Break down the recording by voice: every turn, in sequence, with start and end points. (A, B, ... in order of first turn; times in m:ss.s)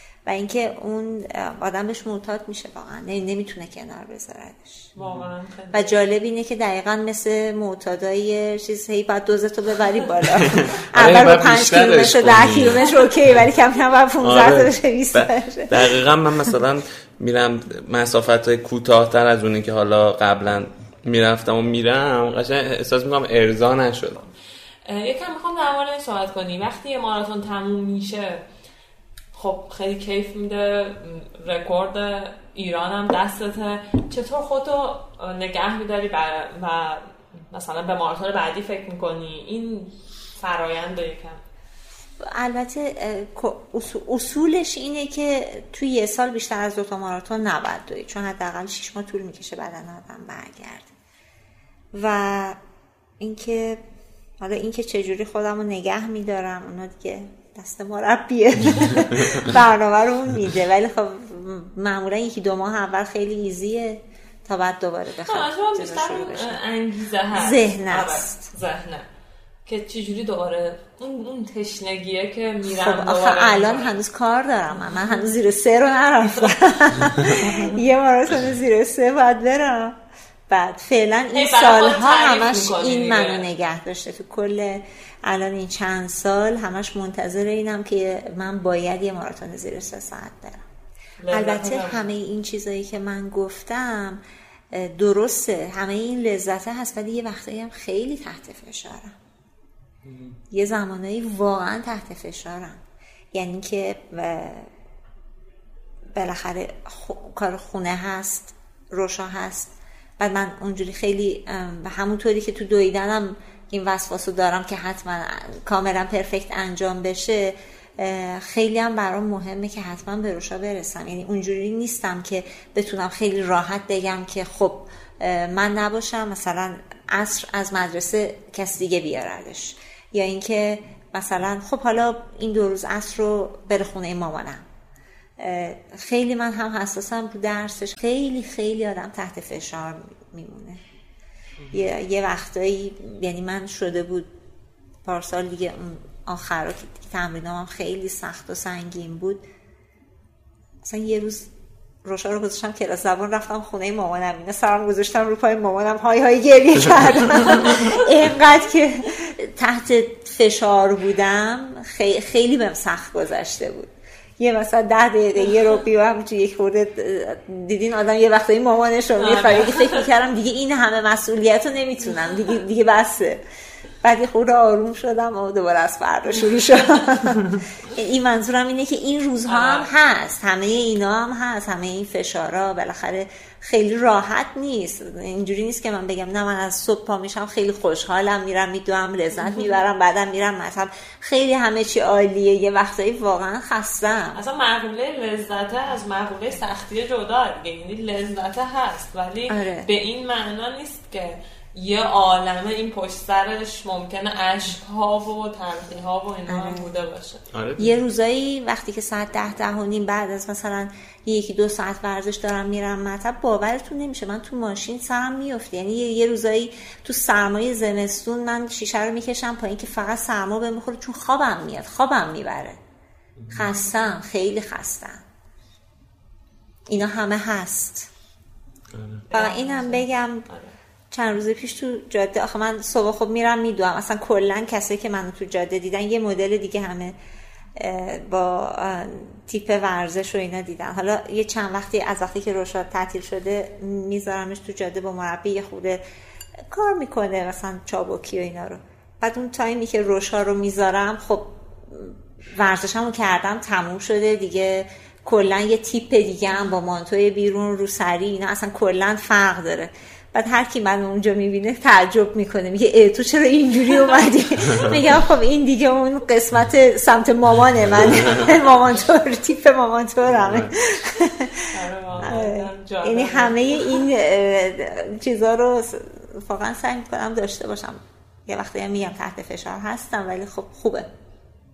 0:00.2-0:04.9 A
0:05.0-0:05.3 B
0:05.0-0:06.0 C
0:05.7-0:16.0 A
0:10.4-0:12.9 B
0:14.2-0:24.2 B
0:24.8-0:28.4 C
0:29.3-0:41.4 C
0:42.2-0:50.9 A
0:51.9-0:52.6 A
0:53.2-0:53.8 A
0:54.4-1:06.6 A
1:05.2-1:09.1 C
1:07.3-1:08.4 A
1:09.7-1:14.0 C
1:12.7-1:30.7 A
1:14.7-1:15.3 C
1:17.2-1:17.8 C
1:21.3-1:23.5 C
1:31.2-1:32.1 C
1:31.3-1:39.2 A
1:40.0-1:40.4 B
1:40.5-1:44.7 A
1:46.1-2:14.7 A
2:15.4-2:20.8 A
2:21.6-2:21.9 B
2:21.7-2:24.3 A
2:25.0-2:29.4 A
2:30.8-2:31.5 A
2:32.0-2:53.4 A
2:49.2-2:50.1 C
2:54.0-3:14.4 A
2:59.5-2:59.9 C
3:09.4-3:09.7 C
3:14.4-3:27.4 C
3:19.5-3:19.9 A
3:26.5-3:26.9 A
3:27.5-3:28.0 B
3:27.8-3:42.8 A
3:43.4-3:43.6 B
3:43.5-3:45.2 A
3:46.9-3:48.1 A
3:48.9-3:49.2 B
3:49.3-3:50.8 C
3:49.3-3:50.5 A
3:51.1-3:57.2 A
3:57.8-4:06.0 A
4:06.6-4:41.1 A
4:30.4-4:30.7 B
4:31.7-4:34.0 C